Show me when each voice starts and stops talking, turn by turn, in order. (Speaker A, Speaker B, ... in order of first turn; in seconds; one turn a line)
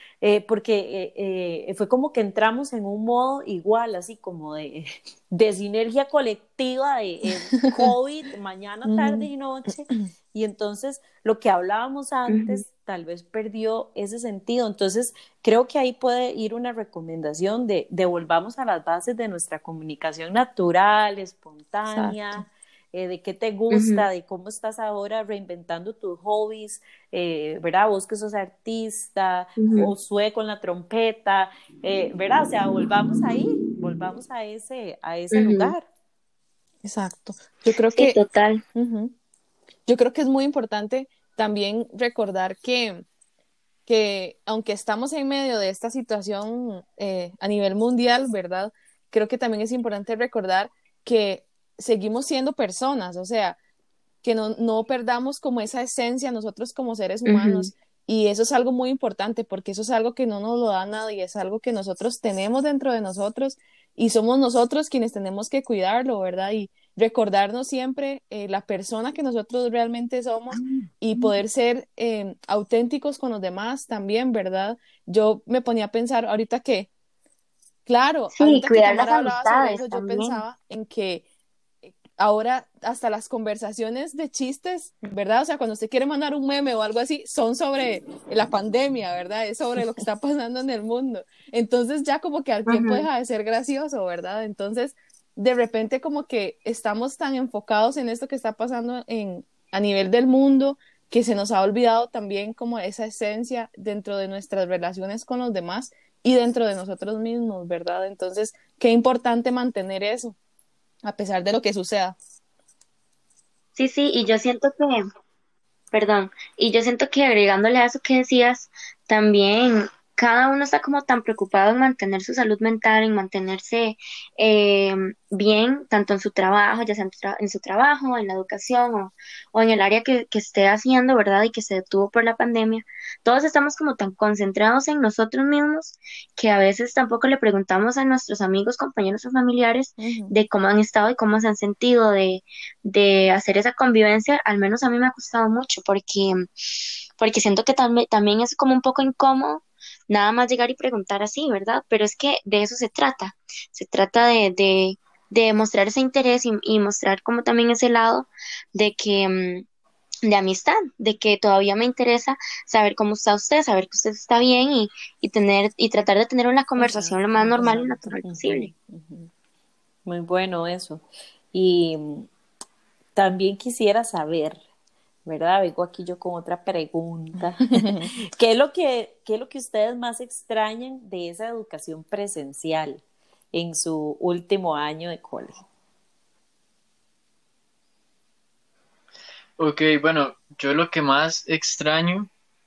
Speaker A: 0.2-35.9
Speaker B: 8.9-9.2
Speaker C: 12.3-12.6
Speaker B: 21.9-22.2
Speaker C: 23.7-24.1
Speaker C: 29.6-29.9
Speaker C: 35.3-35.7
Speaker B: 36.8-38.2
Speaker C: 37.9-38.6
Speaker B: 38.7-39.1
Speaker B: 39.9-43.0
Speaker B: 43.9-53.6
Speaker B: 54.2-76.9
Speaker C: 57.2-57.7
Speaker B: 77.8-81.2
Speaker C: 78.3-80.4
Speaker B: 81.8-110.3
Speaker C: 92.7-93.1
Speaker B: 111.0-112.2
Speaker C: 113.7-115.0
Speaker C: 115.9-146.4
Speaker B: 140.0-140.3
Speaker C: 147.2-159.7
Speaker C: 160.2-168.7
Speaker A: 166.8-169.3
Speaker A: 170.1-172.3
Speaker A: 173.1-174.6
Speaker A: 175.2-185.6
Speaker B: 177.8-178.1
Speaker D: 189.6-192.3